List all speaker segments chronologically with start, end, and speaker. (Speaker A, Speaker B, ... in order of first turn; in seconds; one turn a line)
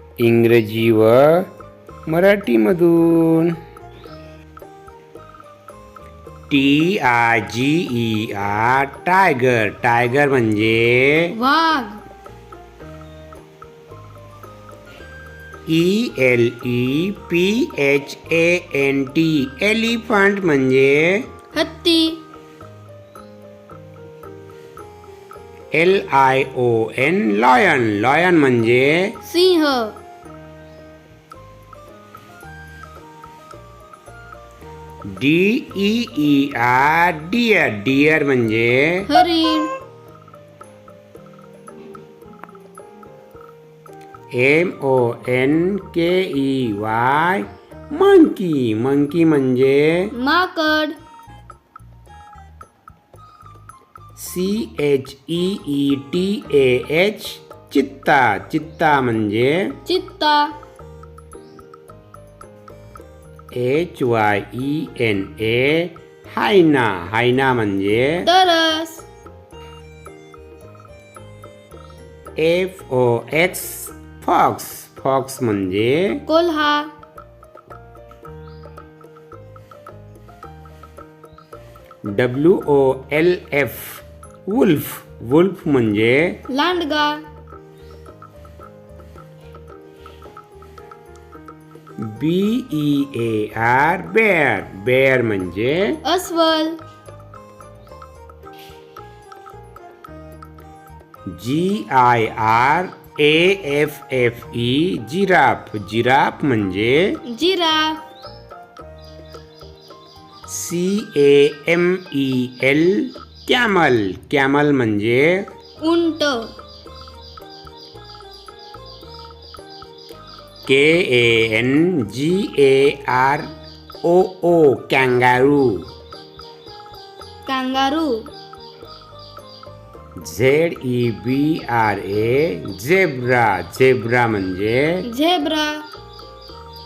Speaker A: 0.2-1.5
Speaker A: 2.1-3.6
Speaker A: 6.5-11.3
Speaker B: 11.3-12.0
Speaker A: 15.7-21.3
Speaker B: 21.5-22.2
Speaker A: 25.7-29.2
Speaker B: 29.2-29.9
Speaker A: 35.1-39.1
Speaker B: 39.1-39.7
Speaker A: 44.3-50.1
Speaker B: 50.1-51.0
Speaker A: 54.2-59.7
Speaker B: 59.9-60.5
Speaker A: 63.5-68.3
Speaker B: 68.2-69.0
Speaker A: 72.4-76.2
Speaker B: 76.3-76.9
Speaker A: 82.1-86.4
Speaker B: 86.5-87.2
Speaker A: 92.0-96.0
Speaker B: 96.0-96.8
Speaker A: 101.3-107.2
Speaker B: 107.3-108.0
Speaker A: 110.5-115.5
Speaker B: 115.8-116.5
Speaker A: 120.7-123.5
Speaker A: 124.0-125.9
Speaker B: 127.5-128.3
Speaker A: 130.2-135.0
Speaker B: 135.1-135.9